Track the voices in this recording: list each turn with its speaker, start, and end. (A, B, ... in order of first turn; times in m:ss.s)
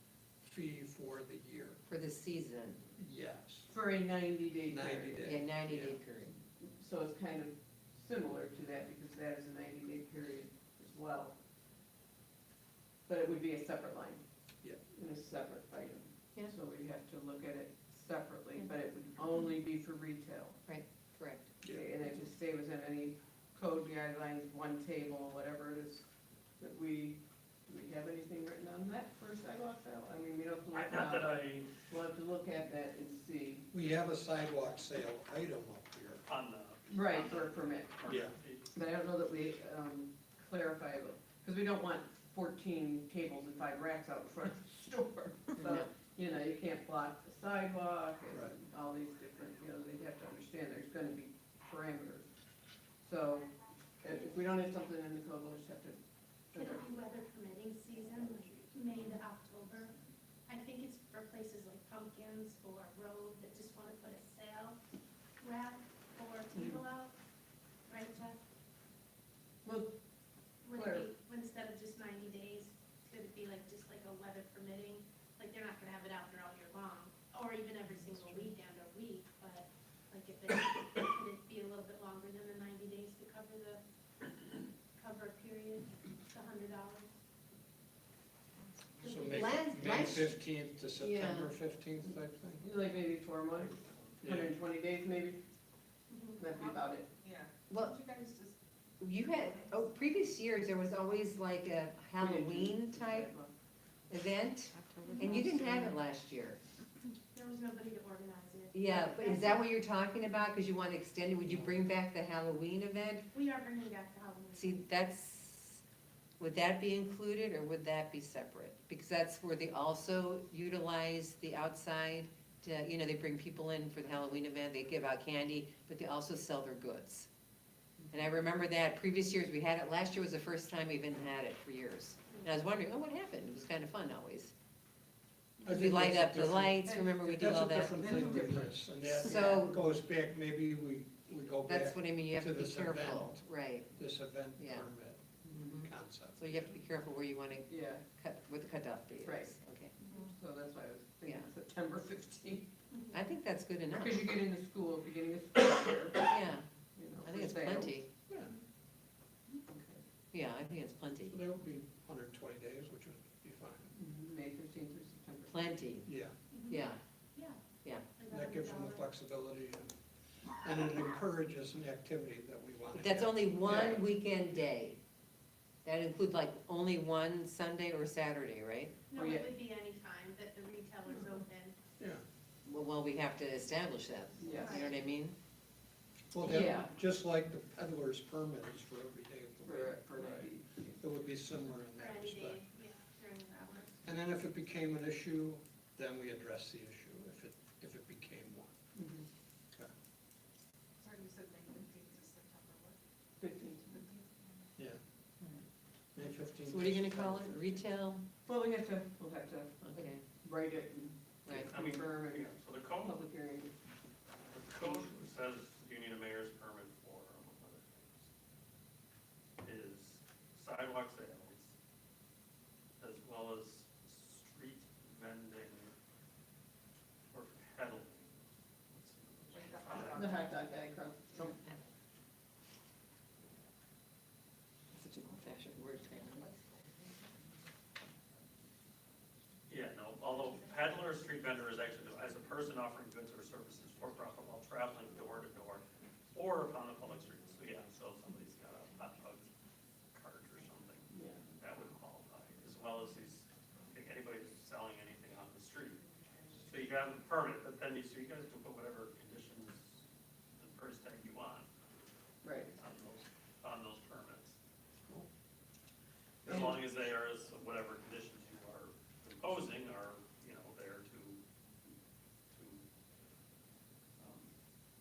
0:00.4-0:01.8 A
0:01.9-0:02.8 B
0:02.9-0:03.7 A
0:03.7-0:05.3 C
0:04.7-0:06.0 A
0:05.2-0:06.3 B
0:06.6-0:11.4 C
0:13.1-0:14.2 C
0:14.9-0:20.6 C
0:20.7-0:21.5 B
0:21.6-0:26.0 C
0:26.6-0:33.7 C
0:30.7-0:31.7 D
0:33.7-0:36.2 A
0:36.2-0:38.7 D
0:36.9-0:38.0 C
0:38.0-0:38.3 A
0:38.7-0:52.3 C
0:45.6-0:45.8 B
0:53.0-0:53.5 C
0:54.0-0:56.0 C
0:56.5-0:56.9 C
0:56.5-0:59.9 E
1:00.5-1:04.8 E
1:05.4-1:07.1 E
1:07.9-1:08.4 E
1:09.6-1:09.9 C
1:10.6-1:23.8 E
1:10.7-1:11.1 C
1:24.9-1:27.1 E
1:29.0-1:30.3 B
1:29.0-1:32.7 A
1:31.0-1:31.5 B
1:32.6-1:35.4 C
1:33.6-1:34.2 D
1:34.2-1:34.5 A
1:36.1-1:36.4 E
1:36.4-1:37.1 C
1:37.2-1:38.5 F
1:37.7-1:38.0 B
1:39.0-1:43.3 B
1:42.2-1:43.5 C
1:44.1-1:46.6 B
1:45.1-1:45.4 E
1:47.3-1:49.7 E
1:48.7-1:53.2 B
1:51.5-1:51.8 A
1:53.3-1:54.8 E
1:54.6-1:55.8 B
1:56.4-2:07.3 B
2:08.1-2:14.5 B
2:15.6-2:23.4 A
2:15.7-2:18.0 B
2:16.8-2:19.8 C
2:19.0-2:19.9 B
2:21.6-2:24.0 B
2:24.0-2:26.8 A
2:24.6-2:24.9 B
2:25.5-2:29.9 B
2:27.7-2:28.0 C
2:29.2-2:29.5 C
2:30.1-2:32.7 C
2:33.1-2:34.3 B
2:33.9-2:36.3 C
2:36.3-2:36.6 B
2:37.0-2:38.0 C
2:37.2-2:38.1 B
2:39.7-2:40.0 C
2:40.3-2:41.4 B
2:41.3-2:43.9 A
2:44.0-2:45.7 C
2:45.5-2:46.1 B
2:46.0-2:46.3 A
2:46.5-2:49.0 E
2:46.7-2:47.0 B
2:47.8-2:48.2 B
2:48.3-2:49.9 A
2:50.6-2:54.0 A
2:52.9-2:55.0 B
2:53.6-2:54.0 C
2:55.8-2:59.0 B
2:59.1-3:01.7 E
2:59.1-2:59.5 C
3:02.0-3:02.2 A
3:02.6-3:05.4 B
3:04.4-3:04.8 C
3:04.5-3:04.9 E
3:06.3-3:12.6 A
3:06.4-3:06.9 C
3:09.6-3:11.0 C
3:12.0-3:14.0 E
3:14.0-3:18.8 A
3:18.9-3:19.3 C
3:21.0-3:22.9 F
3:23.4-3:24.1 C
3:23.9-3:24.4 F
3:26.1-3:27.8 A
3:26.6-3:28.2 B
3:28.4-3:33.7 C
3:29.8-3:30.2 B
3:31.4-3:31.7 B
3:31.6-3:33.2 D
3:34.5-3:38.3 D
3:34.8-3:35.2 C
3:39.6-3:41.7 D
3:43.0-3:45.9 D
3:47.3-3:50.4 D
3:49.9-3:50.3 F
3:50.0-3:51.6 C
3:54.9-3:56.5 B
3:59.7-4:09.5 D
4:10.1-4:20.0 D
4:11.1-4:11.4 C
4:20.6-4:21.7 D
4:22.4-4:22.8 C
4:22.8-4:24.6 D
4:25.0-4:25.3 A
4:26.4-4:31.4 D
4:26.4-4:26.8 C
4:32.5-4:32.9 D
4:34.2-4:34.5 D